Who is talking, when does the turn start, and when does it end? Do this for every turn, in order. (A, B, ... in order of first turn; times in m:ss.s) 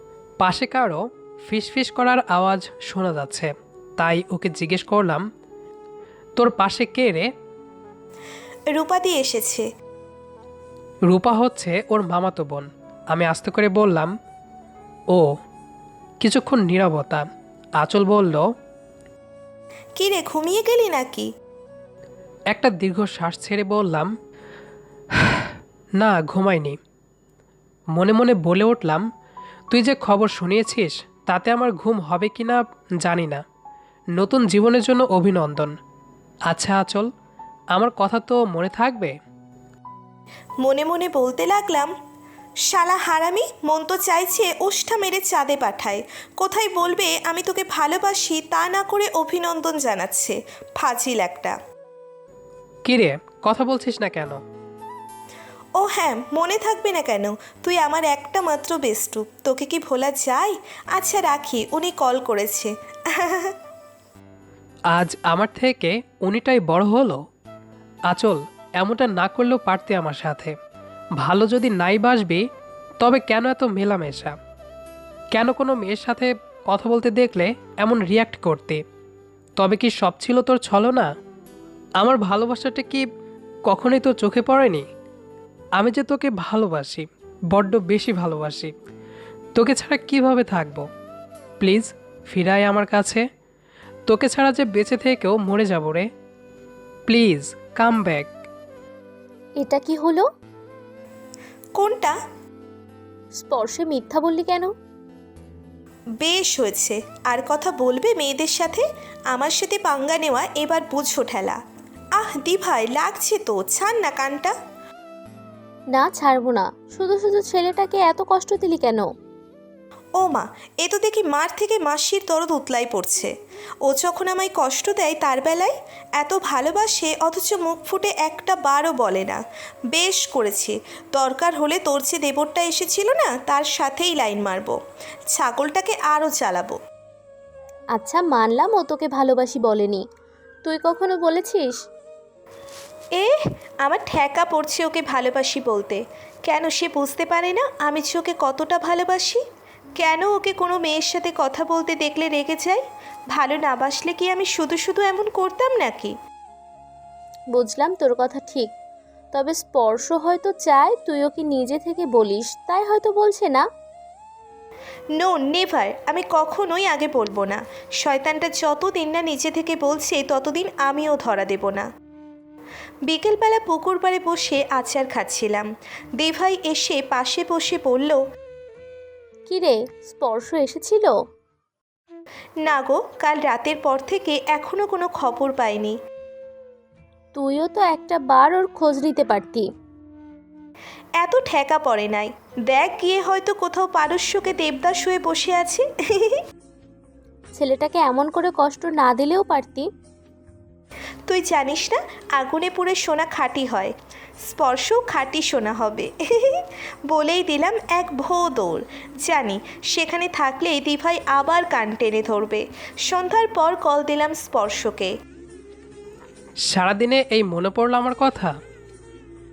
0:00.4-0:05.2 A
0:06.4-0:07.3 A
0:08.7-0:09.7 B
0:11.1-0:14.1 A
0:16.2-0:17.3 A
0:17.8-0:18.4 A
0:20.0-0:21.3 B
0:22.5-0:24.1 A
0:26.0-0:26.8 A
0:28.0-0:29.0 A
0:29.7-0:33.4 A
0:34.2-0:35.8 A
0:36.5-0:37.1 A
0:37.7-0:39.1 A
0:40.6-0:41.9 B
0:42.7-0:51.6 B
0:52.9-0:54.4 A
0:55.8-1:03.5 B
1:04.9-1:07.2 A
1:08.1-1:10.5 A
1:11.2-1:12.4 A
1:13.0-1:14.4 A
1:15.3-1:18.8 A
1:19.6-1:21.1 A
1:22.0-1:23.0 A
1:23.7-1:24.8 A
1:25.8-1:28.7 A
1:29.6-1:30.9 A
1:31.6-1:33.2 A
1:34.1-1:36.1 A
1:37.1-1:38.3 A
1:39.6-1:40.3 C
1:41.8-1:42.2 B
1:43.4-1:44.7 C
1:46.2-1:51.6 B
1:52.2-1:54.5 B
1:55.9-1:59.1 C
2:00.2-2:03.3 B
2:03.8-2:09.4 B
2:09.9-2:14.8 B
2:15.3-2:16.8 B
2:18.0-2:20.0 C
2:20.6-2:21.7 C
2:23.2-2:29.4 B
2:30.0-2:32.8 B
2:33.3-2:36.1 B
2:37.5-2:38.7 C
2:39.3-2:43.6 C
2:45.2-2:51.9 B
2:53.1-2:55.7 B
2:56.2-2:58.2 B
2:59.5-3:01.1 C
3:02.6-3:06.0 B
3:07.4-3:09.7 C
3:11.2-3:16.4 B
3:17.6-3:19.9 C
3:21.3-3:23.9 B
3:24.4-3:35.1 B
3:36.7-3:38.6 A